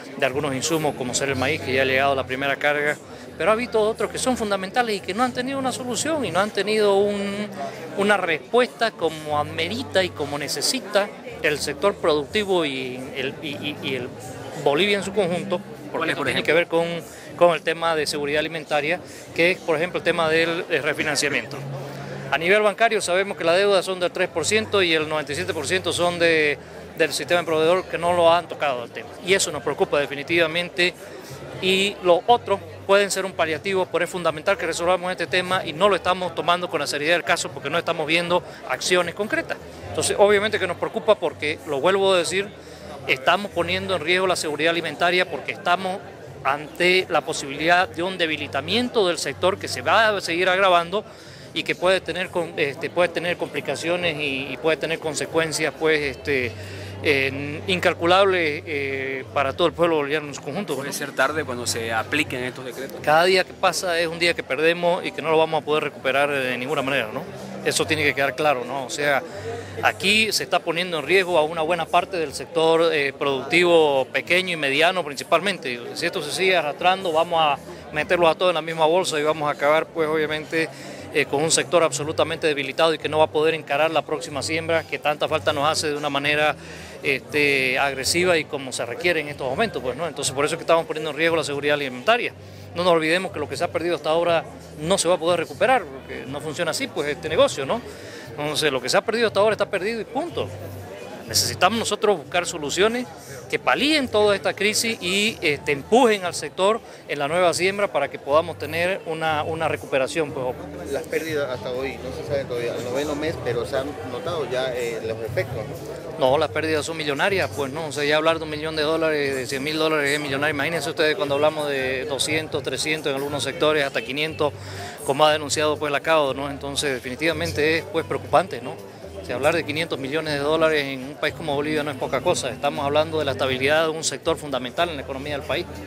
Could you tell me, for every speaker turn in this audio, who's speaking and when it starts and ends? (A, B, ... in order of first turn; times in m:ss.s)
0:00.2-0:21.6 A
0:16.0-0:16.6 B
0:22.3-0:31.0 A
0:31.6-0:42.5 A
0:43.1-1:01.0 A
1:00.8-1:03.0 B
1:03.0-1:09.2 A
1:09.8-1:37.8 A
1:38.4-1:40.5 A
1:41.3-1:50.6 A
1:50.8-1:55.7 C
1:56.2-2:15.7 A